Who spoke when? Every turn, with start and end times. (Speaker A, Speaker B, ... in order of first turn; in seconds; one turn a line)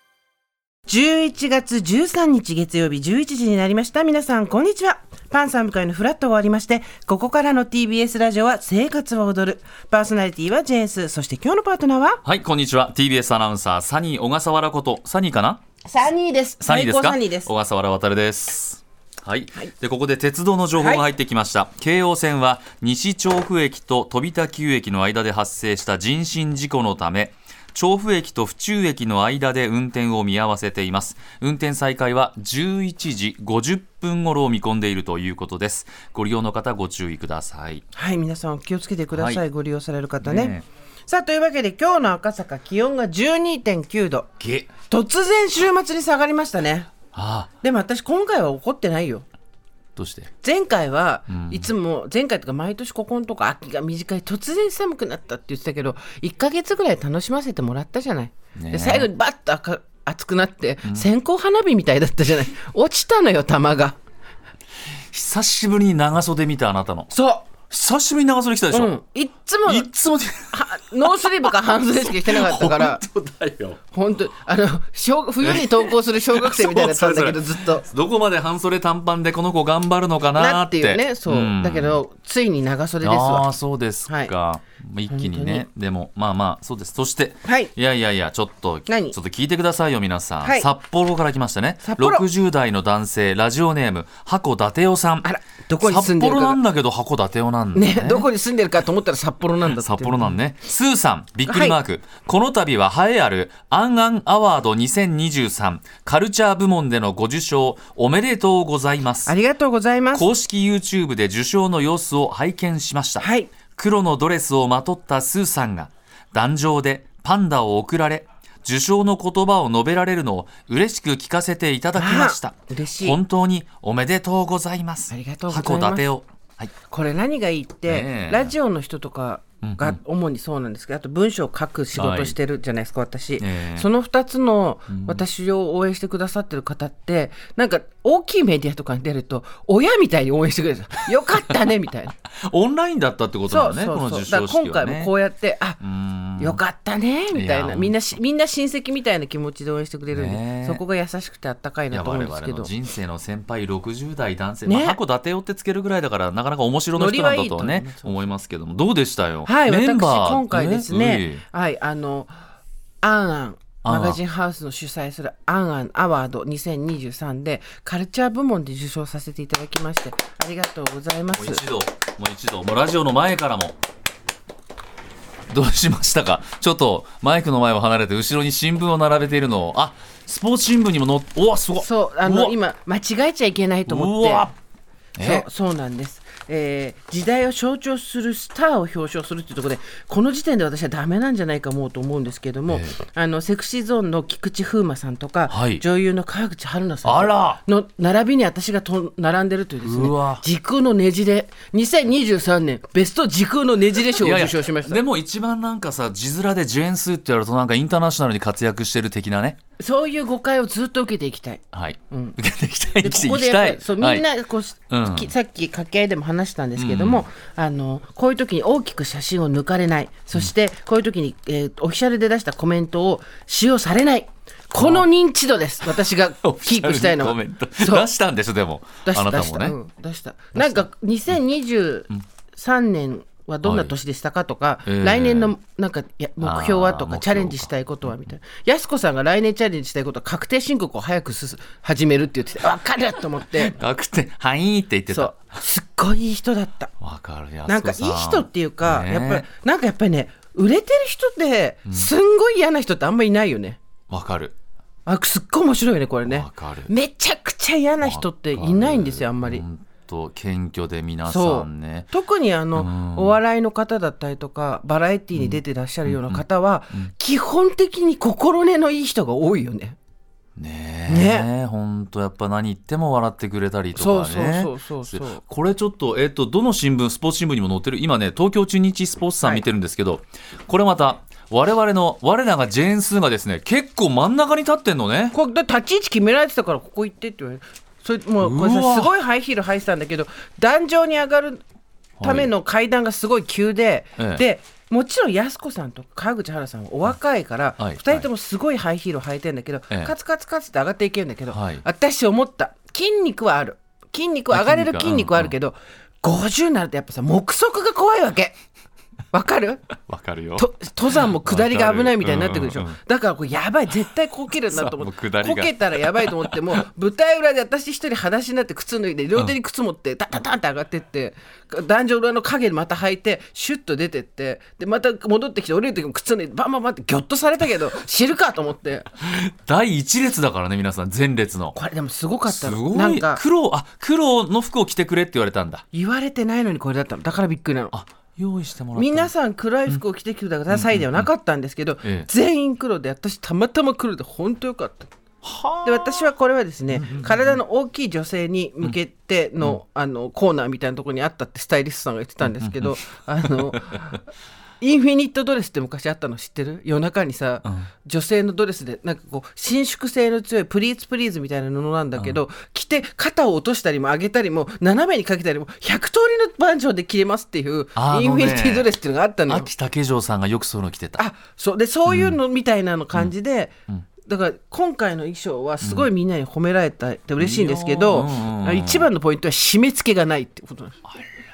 Speaker A: 0.9-12.2
Speaker B: 12.2-15.6
Speaker A: 15.9-17.5
Speaker B: 16.6-37.8
Speaker A: 20.8-21.0
Speaker A: 37.9-40.5
Speaker B: 39.1-39.4
Speaker B: 40.2-40.7
Speaker A: 41.1-44.3
Speaker B: 44.4-44.7
Speaker A: 44.9-46.9
Speaker B: 47.1-47.5
Speaker A: 47.6-49.3
Speaker B: 50.0-50.3
Speaker A: 50.4-64.0
Speaker B: 51.3-51.7
Speaker B: 58.6-59.1
Speaker B: 65.1-67.1
Speaker A: 67.1-67.5
Speaker B: 67.7-68.9
Speaker A: 68.7-69.9
Speaker B: 69.7-71.1
Speaker A: 70.5-73.0
Speaker B: 72.0-73.8
Speaker A: 73.9-77.9
Speaker B: 75.4-82.0
Speaker A: 80.4-83.5
Speaker B: 83.0-98.3
Speaker A: 84.1-84.3
Speaker A: 85.1-85.7
Speaker A: 87.5-87.7
Speaker A: 88.9-89.2
Speaker A: 90.4-90.7
Speaker A: 91.8-92.2
Speaker A: 95.2-96.6
Speaker A: 97.8-100.4
Speaker B: 99.7-109.3
Speaker A: 101.5-101.8
Speaker A: 109.3-110.3
Speaker B: 110.1-126.7
Speaker A: 113.2-113.5
Speaker A: 122.0-123.2
Speaker A: 125.1-126.1
Speaker A: 126.9-142.2
Speaker B: 127.9-128.5
Speaker B: 129.6-130.0
Speaker B: 131.9-132.3
Speaker B: 133.4-133.9
Speaker B: 134.9-135.2
Speaker B: 142.4-145.1
Speaker A: 143.5-145.8
Speaker B: 145.8-146.6
Speaker A: 146.4-152.7
Speaker B: 147.3-147.9
Speaker B: 150.1-150.8
Speaker B: 151.9-161.4
Speaker A: 154.7-155.0
Speaker A: 157.0-158.3
Speaker A: 159.5-162.3
Speaker A: 163.0-171.7
Speaker B: 163.8-164.2
Speaker B: 171.3-173.8
Speaker B: 175.5-182.5
Speaker A: 181.8-184.5
Speaker B: 183.9-184.5
Speaker B: 185.2-185.5
Speaker A: 185.2-205.0
Speaker B: 192.7-193.0
Speaker B: 195.5-195.8
Speaker B: 197.1-197.6
Speaker B: 199.8-200.4
Speaker B: 204.1-209.6
Speaker A: 209.8-212.4
Speaker B: 211.7-214.3
Speaker A: 213.0-228.1
Speaker B: 214.9-215.3
Speaker B: 216.8-217.3
Speaker B: 224.8-225.1
Speaker B: 225.9-229.8
Speaker A: 229.1-243.8
Speaker B: 230.6-230.9
Speaker B: 233.6-233.9
Speaker B: 234.9-235.5
Speaker B: 236.4-237.7
Speaker B: 243.6-245.4
Speaker A: 245.1-246.9
Speaker B: 247.0-249.5
Speaker A: 247.7-253.8
Speaker B: 251.9-252.1
Speaker B: 254.1-254.5
Speaker A: 255.1-259.6
Speaker B: 256.2-256.9
Speaker B: 258.0-262.1
Speaker A: 261.3-270.0
Speaker B: 262.8-263.4
Speaker B: 265.4-267.1
Speaker B: 270.6-285.4
Speaker A: 271.1-271.5
Speaker A: 273.9-275.4
Speaker A: 285.3-291.6
Speaker B: 288.4-289.1
Speaker B: 292.2-292.5
Speaker A: 292.2-308.6
Speaker B: 294.2-294.4
Speaker B: 297.8-298.3
Speaker B: 301.5-301.8
Speaker B: 304.5-305.5
Speaker A: 309.3-309.9
Speaker B: 310.1-313.0
Speaker A: 310.6-329.1
Speaker B: 314.7-316.8
Speaker B: 329.2-331.8
Speaker A: 331.7-333.4
Speaker B: 332.5-335.8
Speaker A: 335.9-337.9
Speaker B: 337.9-339.3
Speaker A: 338.9-345.1
Speaker B: 340.7-341.3
Speaker B: 342.0-342.3
Speaker B: 345.4-346.3
Speaker A: 345.8-354.2
Speaker B: 346.9-347.6
Speaker B: 352.4-352.9
Speaker A: 354.8-369.7
Speaker B: 368.0-368.9
Speaker B: 369.5-371.2
Speaker A: 371.2-373.7
Speaker B: 372.1-372.4
Speaker A: 374.2-381.1
Speaker B: 375.8-376.1
Speaker B: 377.4-379.1